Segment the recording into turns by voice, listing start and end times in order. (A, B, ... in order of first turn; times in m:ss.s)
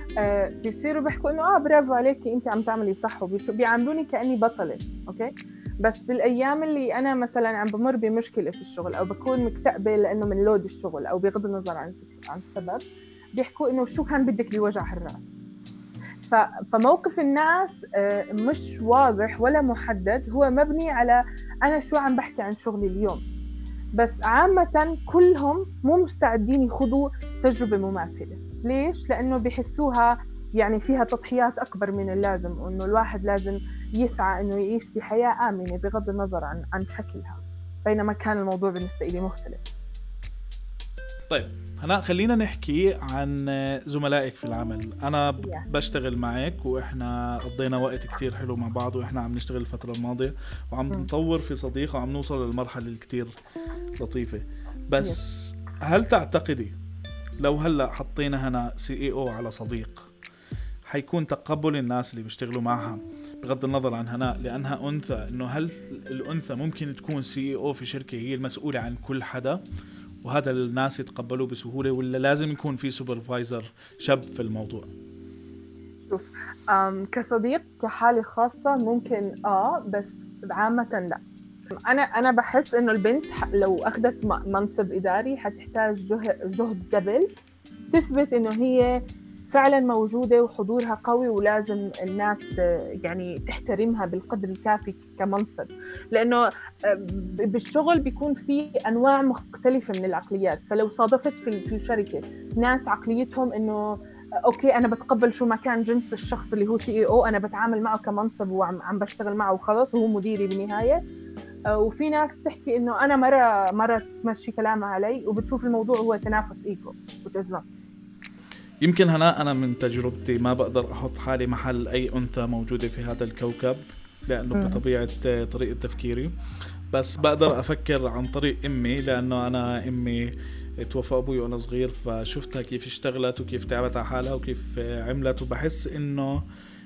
0:00.2-0:12.8 A
0:13.4-0:15.2 A
0:16.3-0:23.2 A
0:24.0-0:39.6 A
0:41.3-0:53.3 B
0:54.0-0:56.7 B
0:57.4-1:00.1 B
1:00.9-1:09.6 B
1:10.2-1:14.9 B
1:16.1-1:21.2 A
1:21.8-1:27.3 A
1:27.9-1:28.9 A
1:29.5-1:32.4 A
1:33.0-1:51.0 A
1:51.7-1:57.6 A
1:58.8-2:06.3 B
2:04.5-2:04.8 A
2:06.9-2:16.4 B